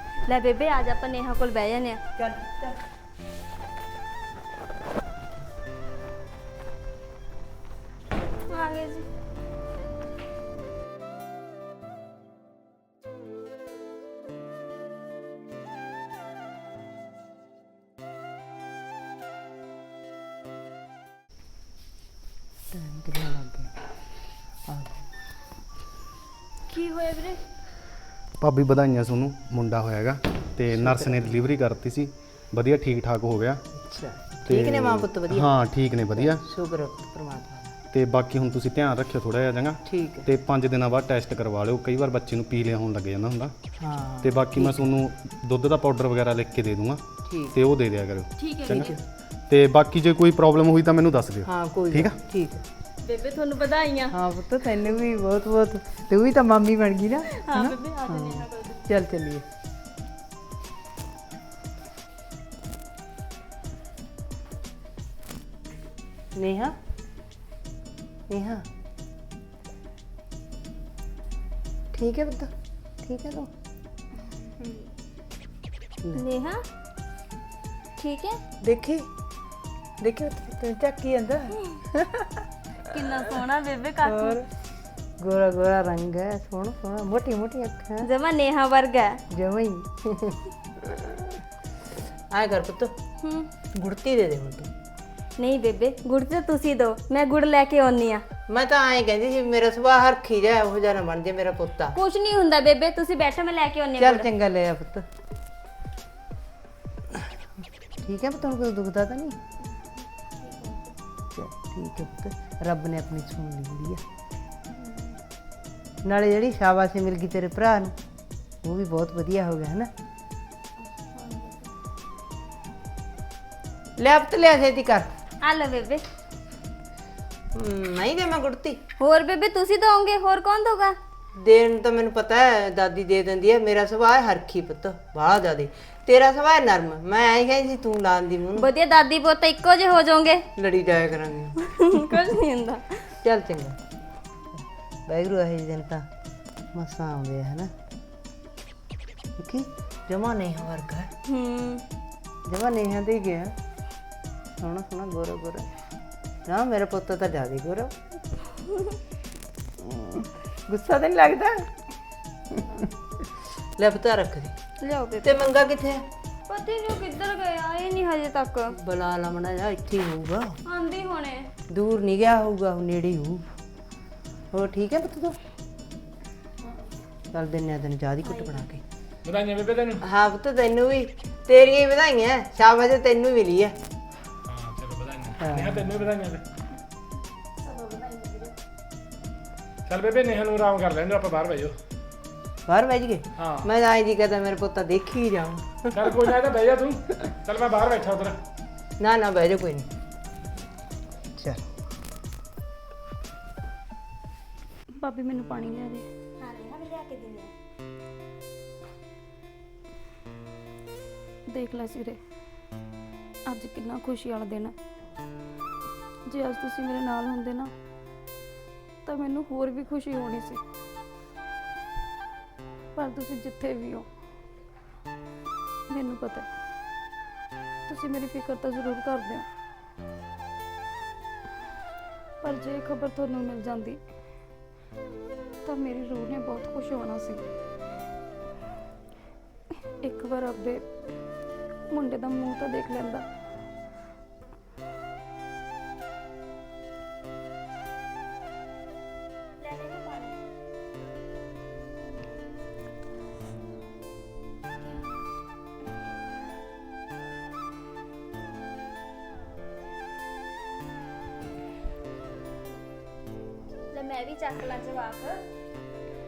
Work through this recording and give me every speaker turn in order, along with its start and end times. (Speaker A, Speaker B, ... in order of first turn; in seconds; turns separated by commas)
Speaker A: 0.2-2.0, Speaker B: 2.2-2.8, Speaker A: 8.5-9.0, Speaker B: 22.7-23.7, Speaker B: 24.7-25.1, Speaker A: 26.7-27.4, Speaker C: 28.4-33.6, Speaker B: 30.7-31.3, Speaker B: 33.8-35.6, Speaker C: 34.4-36.4, Speaker B: 36.1-37.7, Speaker C: 37.9-43.5, Speaker B: 39.9-40.3, Speaker B: 43.8-44.9, Speaker C: 44.2-52.2, Speaker B: 47.3-47.6, Speaker A: 48.4-48.9, Speaker B: 51.4-52.6, Speaker A: 53.0-54.2, Speaker B: 54.1-59.4, Speaker A: 57.4-58.8, Speaker B: 66.3-66.7, Speaker B: 68.3-68.7, Speaker B: 71.9-73.5, Speaker A: 76.1-76.6, Speaker A: 78.0-78.4, Speaker B: 78.6-79.1, Speaker B: 80.0-82.5, Speaker A: 82.9-84.4, Speaker B: 84.0-84.5, Speaker B: 85.2-88.1, Speaker A: 88.0-89.2, Speaker B: 89.3-91.4, Speaker B: 92.3-92.9, Speaker A: 93.2-93.5, Speaker B: 93.7-94.7, Speaker A: 95.4-98.2, Speaker B: 98.5-102.0, Speaker A: 101.9-104.3, Speaker B: 104.0-105.0, Speaker B: 108.0-109.3, Speaker A: 110.4-110.8, Speaker B: 111.3-114.0, Speaker B: 116.0-117.9, Speaker B: 118.6-119.9, Speaker A: 121.1-121.7, Speaker B: 124.0-125.1, Speaker A: 125.4-126.0, Speaker B: 127.5-128.8, Speaker A: 129.0-131.0, Speaker B: 131.4-138.7, Speaker A: 138.6-140.4, Speaker B: 140.6-142.2, Speaker A: 141.6-143.1, Speaker B: 143.2-143.8, Speaker B: 145.1-146.1, Speaker B: 146.7-147.7, Speaker B: 149.4-151.1, Speaker A: 151.3-151.8, Speaker B: 152.5-153.5, Speaker B: 154.6-155.7, Speaker B: 156.5-157.9, Speaker B: 159.8-161.7, Speaker B: 162.5-164.5, Speaker A: 164.8-165.4, Speaker B: 165.2-166.0, Speaker A: 166.5-168.8, Speaker B: 168.8-170.6, Speaker A: 170.7-171.5, Speaker B: 171.7-173.4, Speaker B: 174.5-175.4, Speaker B: 177.3-178.8, Speaker A: 178.2-178.6, Speaker D: 179.2-180.0, Speaker B: 180.0-183.8, Speaker D: 184.4-186.4, Speaker B: 185.4-185.9, Speaker E: 187.6-188.5, Speaker D: 189.9-191.8, Speaker B: 192.7-196.3, Speaker D: 193.4-193.7, Speaker D: 195.9-198.4, Speaker B: 199.0-199.9, Speaker B: 201.4-201.6, Speaker E: 204.9-206.1, Speaker A: 206.4-207.5, Speaker E: 211.5-212.2, Speaker E: 213.4-214.8, Speaker E: 216.3-217.7, Speaker E: 219.1-220.6, Speaker E: 222.9-224.1, Speaker E: 225.9-226.5, Speaker E: 227.9-229.4, Speaker E: 232.4-234.0, Speaker E: 235.6-237.4, Speaker E: 240.0-240.9, Speaker E: 241.9-243.2, Speaker A: 249.6-250.3, Speaker A: 263.9-265.4